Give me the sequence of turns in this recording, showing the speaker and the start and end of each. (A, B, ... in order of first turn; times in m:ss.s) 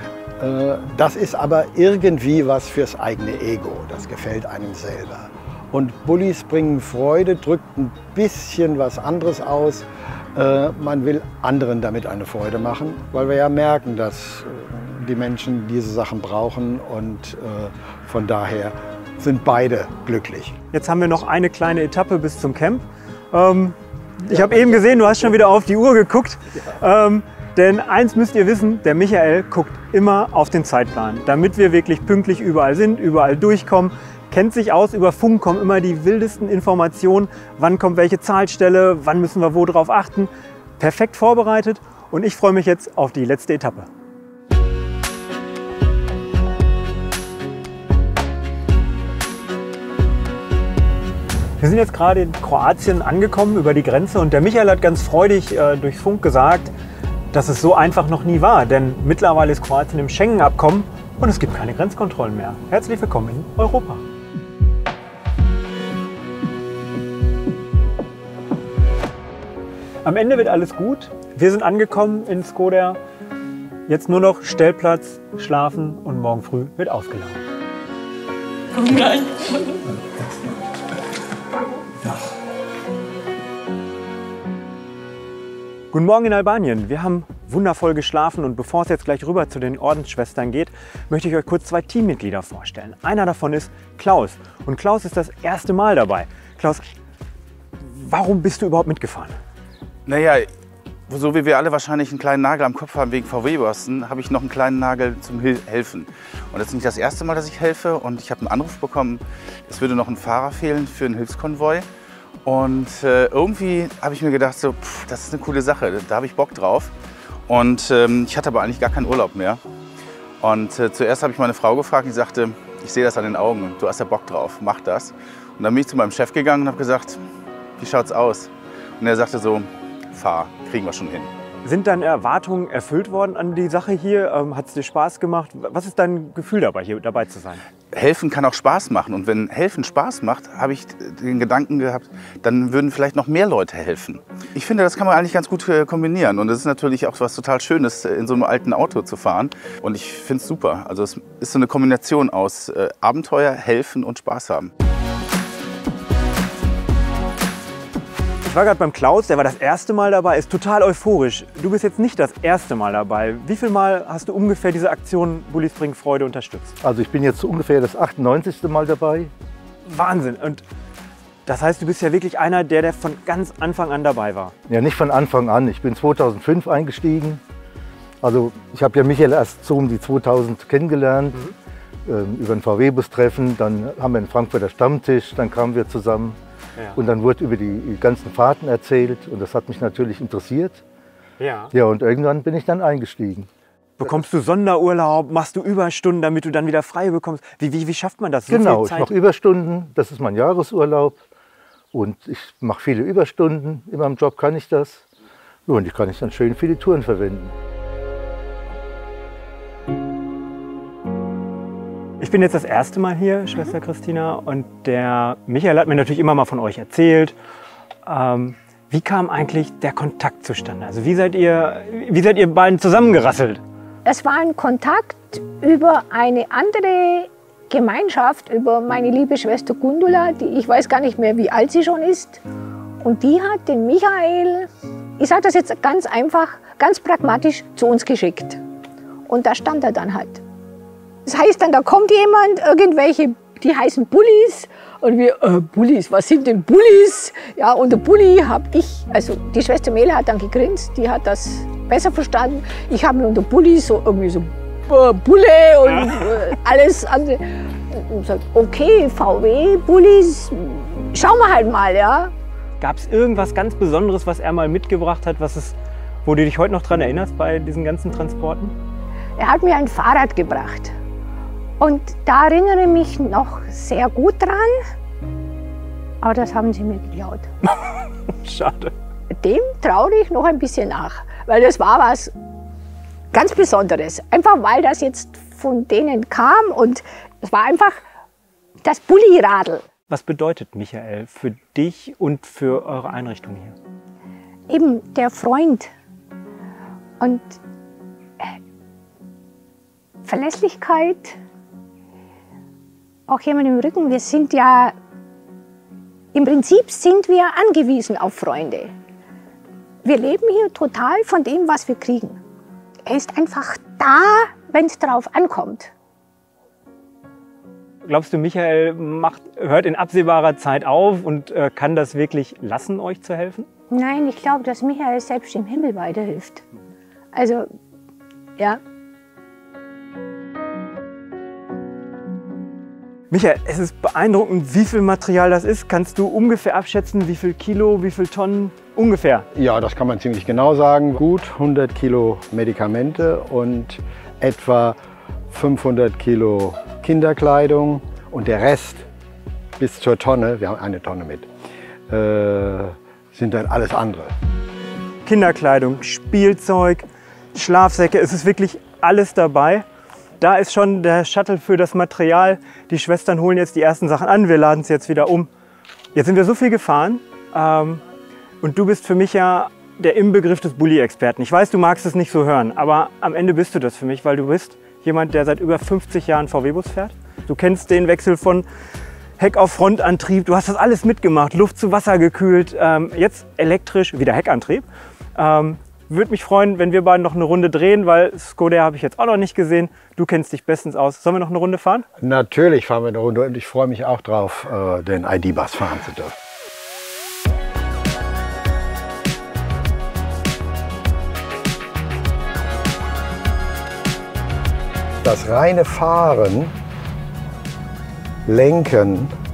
0:00.4-0:20.6 A
0:20.7-0:43.9 B
0:51.6-0:56.7 B
0:57.3-1:04.0 B
1:10.0-1:13.0 B
1:13.9-1:17.4 B
1:25.9-1:36.8 B
1:37.8-1:39.4 B
1:40.1-1:40.5 C
1:41.1-1:51.9 C
1:52.4-1:56.9 C
1:57.5-1:59.6 C
2:00.4-2:07.2 C
2:07.8-2:11.3 C
2:11.6-2:17.6 B
2:17.9-2:34.7 C
2:38.4-2:46.8 B
2:46.8-2:49.3 D
2:49.8-2:50.6 B
2:51.5-2:54.5 B
2:54.7-2:57.4 D
2:58.2-3:01.4 D
3:02.1-3:06.4 D
3:07.0-3:10.8 D
3:11.4-3:11.7 B
3:11.7-3:13.5 D
3:14.0-3:19.1 B
3:18.5-3:21.2 D
3:21.9-3:25.0 D
3:25.7-3:27.5 D
3:32.2-3:37.4 B
3:38.1-3:43.6 B
3:44.0-3:52.4 E
3:53.0-3:58.6 E
3:59.3-4:00.4 E
4:01.3-4:22.3 E
4:22.8-4:28.7 B
4:29.4-4:30.9 E
4:31.8-4:34.8 E
4:36.2-4:37.5 E
4:38.3-4:38.9 B
4:39.4-4:42.3 E
4:43.3-4:48.0 E
4:48.8-4:49.8 E
4:50.1-4:53.8 B
4:54.7-4:55.9 E
4:57.2-4:57.6 E
5:00.2-5:01.4 E
5:03.3-5:04.9 E
5:06.3-5:08.9 E
5:10.0-5:12.4 E
5:13.1-5:15.9 E
5:18.0-5:23.7 B
5:23.9-5:26.6 E
5:27.3-5:27.7 E
5:33.3-5:39.5 B
5:39.6-5:45.0 A
5:45.5-5:49.1 A
5:49.8-5:51.5 A
5:52.1-5:54.3 A
5:55.2-5:59.8 B
6:00.4-6:05.5 B
6:06.2-6:08.0 B
6:08.6-6:18.7 B
6:19.4-6:32.1 B
6:32.2-6:36.4 A
6:45.2-6:46.7 A
6:48.5-6:49.3 A